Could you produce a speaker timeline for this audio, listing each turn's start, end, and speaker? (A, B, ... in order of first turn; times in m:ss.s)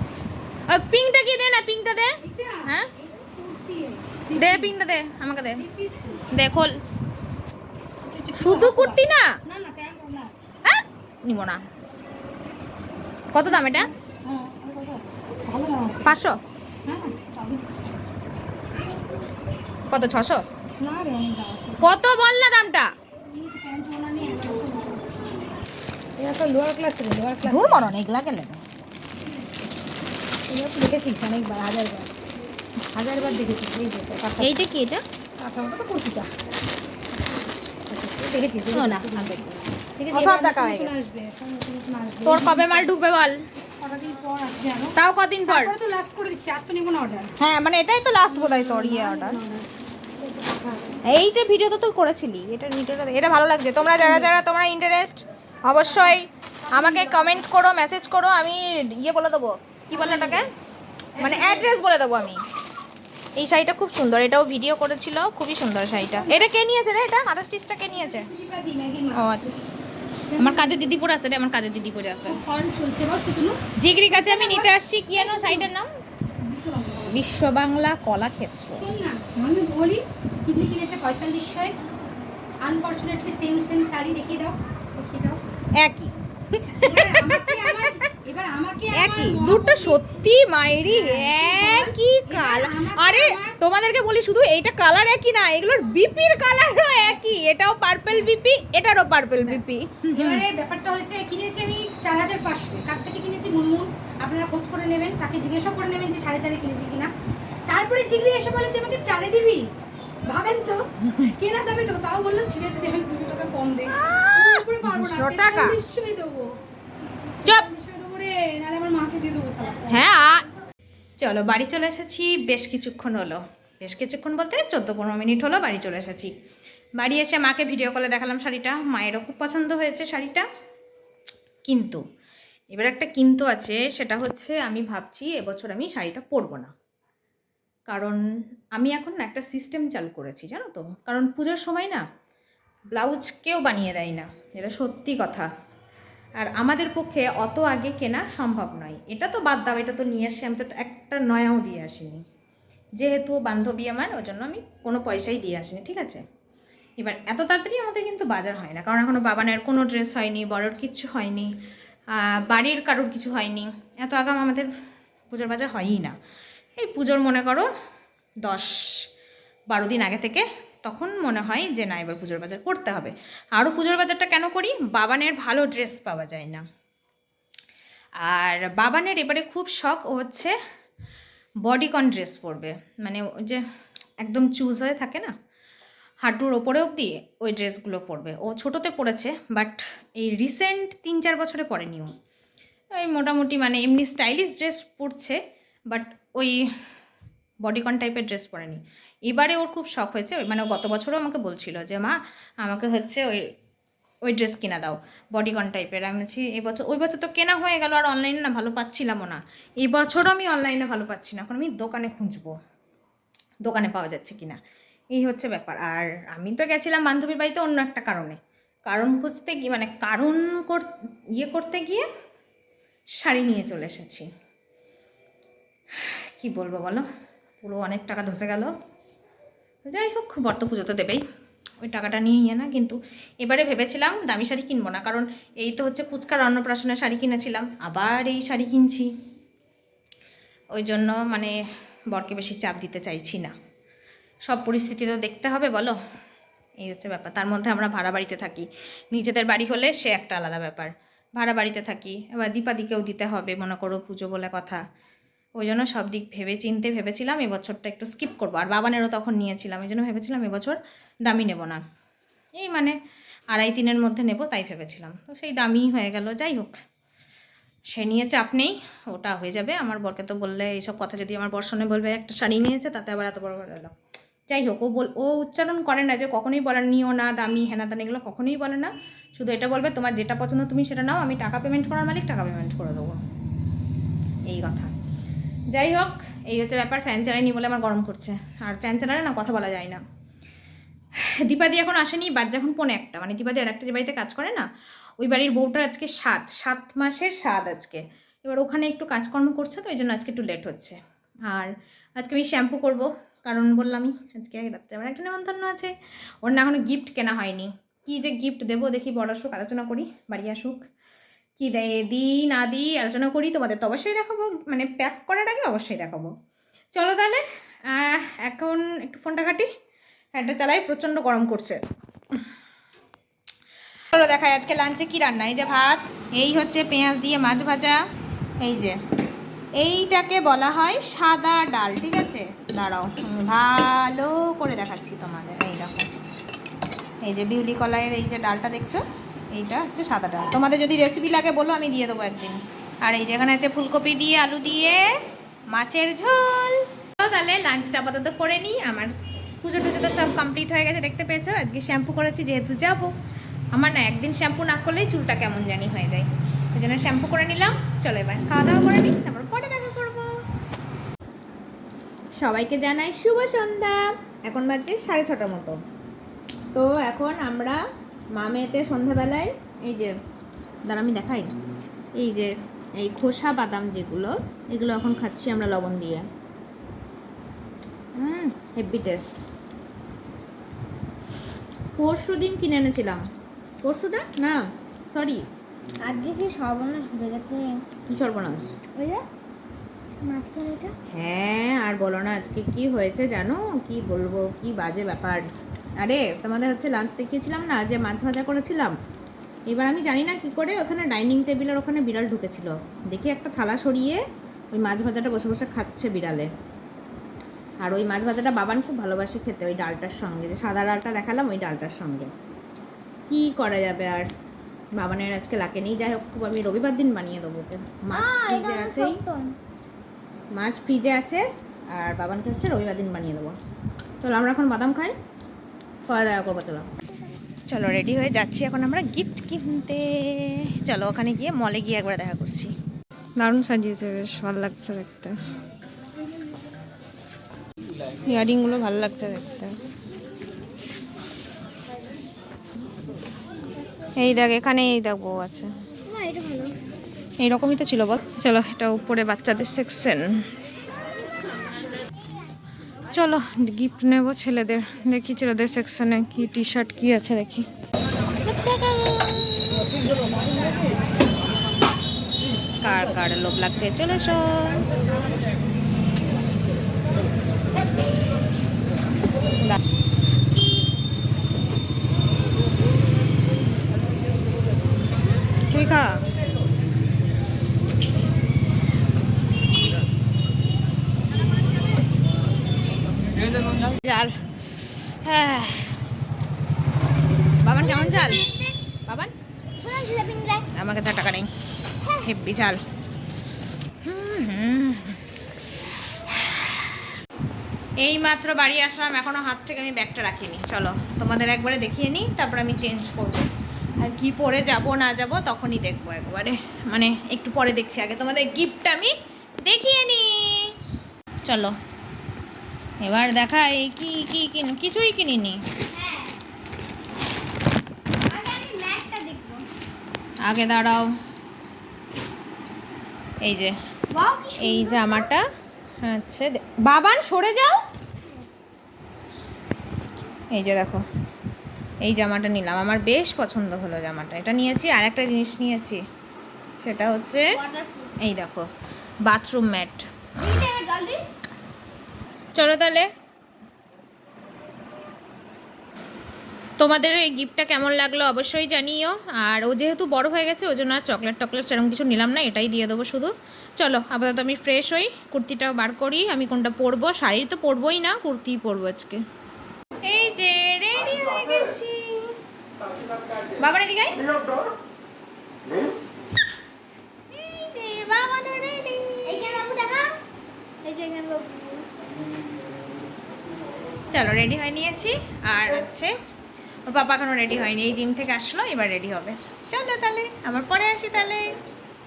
0:00.7-0:02.9 A
0:02.2-0:04.7 B
0:04.4-0:05.6 A
0:05.6-0:06.2 B
0:06.3-0:06.8 A
0:08.0-0:10.4 B
0:08.4-0:09.3 A
0:10.6-0:11.6 A
0:13.3-0:13.9 A
0:13.5-0:16.1 B
0:16.0-0:16.4 A
0:16.9-0:17.7 B
0:19.9-0:20.4 A
0:20.8-0:21.8 B
0:21.8-0:22.9 A
0:23.3-0:25.2 B
0:26.2-0:27.9 B
0:27.4-0:28.6 A
0:30.5-0:32.1 B
0:33.0-0:34.7 B
0:34.4-0:35.0 A
0:35.4-0:36.3 B
0:37.9-0:39.4 B
0:38.7-0:41.0 A
0:40.0-0:42.9 B
0:42.2-0:43.4 A
0:43.8-0:44.9 B
0:45.0-0:45.7 A
0:45.5-0:47.3 B
0:47.4-0:49.4 A
0:48.3-0:51.0 B
0:51.1-1:00.5 A
0:53.9-0:54.4 B
0:56.7-0:57.4 B
1:00.0-1:00.4 B
1:01.2-1:01.7 B
1:01.2-1:02.4 A
1:03.4-1:08.3 A
1:06.0-1:06.4 B
1:07.9-1:09.6 B
1:09.1-1:09.5 A
1:10.3-1:10.8 B
1:10.4-1:12.4 A
1:12.3-1:15.7 B
1:13.8-1:15.9 A
1:16.4-1:17.2 B
1:17.1-1:18.8 A
1:18.8-1:21.8 B
1:22.6-1:25.4 B
1:25.8-1:28.0 A
1:26.8-1:30.0 B
1:28.9-1:40.4 A
1:30.9-1:33.6 B
1:39.4-1:47.1 B
1:47.7-1:49.7 B
1:50.2-1:56.6 B
1:51.1-1:51.3 A
1:53.9-1:55.8 A
1:57.4-1:59.9 B
1:59.9-2:00.4 A
2:01.2-2:06.3 A
2:07.0-2:10.5 A
2:11.6-2:12.0 A
2:12.7-2:16.7 A
2:17.9-2:18.2 A
2:18.8-2:22.0 A
2:22.9-2:25.5 A
2:26.4-2:32.2 A
2:33.0-2:36.2 A
2:37.0-2:41.5 A
2:42.1-2:44.7 A
2:45.3-2:46.2 A
2:46.8-2:47.7 A
2:48.4-2:48.8 A
2:49.7-2:56.6 A
2:58.2-3:00.6 A
3:01.7-3:03.6 A
3:04.2-3:05.3 A
3:06.2-3:12.1 A
3:12.9-3:15.4 A
3:15.9-3:16.6 A
3:17.6-3:23.4 A
3:24.3-3:32.5 A
3:33.6-3:34.6 A
3:35.1-3:42.1 A
3:43.2-3:44.3 A
3:46.0-3:47.1 A
3:47.6-3:48.7 A
3:49.8-3:51.2 A
3:51.8-3:59.1 A
4:00.7-4:01.6 A
4:02.1-4:03.5 A
4:04.5-4:06.0 A
4:06.8-4:14.8 A
4:15.6-4:21.8 A
4:22.6-4:23.0 A
4:23.5-4:26.8 A
4:27.9-4:33.9 A
4:34.5-4:43.2 A
4:44.5-4:44.9 A
4:45.7-4:50.0 A
4:51.4-4:54.7 A
4:55.2-5:01.0 A
5:01.5-5:05.9 A
5:06.4-5:10.8 A
5:11.6-5:16.3 A
5:17.0-5:19.7 A
5:20.4-5:21.8 A
5:24.1-5:28.0 A
5:28.6-5:29.0 A
5:29.8-5:36.1 A
5:37.2-5:45.0 A
5:45.7-5:53.1 A
5:53.8-6:00.3 A
6:02.4-6:05.8 A
6:06.7-6:07.8 A
6:08.4-6:10.1 A
6:10.9-6:11.5 A
6:12.2-6:16.2 A
6:18.2-6:19.3 A
6:22.0-6:23.2 A
6:23.8-6:25.5 A
6:26.0-6:27.9 C
6:28.1-6:28.7 A
6:29.0-6:29.2 C
6:30.2-6:31.0 C
6:31.1-6:35.5 A
6:36.0-6:39.0 A
6:39.7-6:44.2 A
6:44.7-6:46.5 A
6:47.8-6:52.3 A
6:53.3-6:54.3 A
6:55.0-6:59.2 A
6:58.1-6:59.5 C
7:00.6-7:03.6 A
7:04.2-7:05.2 A
7:06.1-7:06.9 A
7:07.7-7:12.7 A
7:13.4-7:15.4 A
7:18.2-7:19.7 A
7:24.2-7:25.7 A
7:26.1-7:26.8 C
7:27.4-7:30.3 A
7:33.1-7:37.7 A
7:38.4-7:39.8 A
7:42.8-7:44.9 A
7:55.7-7:56.2 A
8:03.7-8:04.4 A
8:05.2-8:06.0 A
8:07.6-8:08.5 A
8:07.8-8:08.7 C
8:09.8-8:10.7 C
8:10.8-8:11.5 A
8:12.1-8:12.8 A
8:14.0-8:15.2 A
8:16.1-8:17.0 A
8:18.0-8:30.7 A
8:31.5-8:31.8 A
8:33.0-8:35.6 A
8:35.9-8:36.3 C
8:38.3-8:39.7 C
8:40.4-8:41.1 A
8:43.4-8:43.8 A
8:44.2-8:45.3 C
8:44.6-8:45.4 A
8:46.0-8:47.8 A
8:50.5-8:51.0 A
8:52.0-8:56.0 A
8:56.8-8:57.6 A
8:57.6-8:58.1 C
8:58.2-8:58.7 A
8:59.3-9:00.0 A
9:00.4-9:01.2 B
9:02.6-9:03.1 A
9:06.8-9:19.2 A
9:20.1-9:22.3 A
9:23.6-9:24.2 A
9:27.3-9:29.6 A
9:29.3-9:30.1 C
9:30.8-9:31.9 C
9:34.1-9:36.1 A
9:36.9-9:41.5 A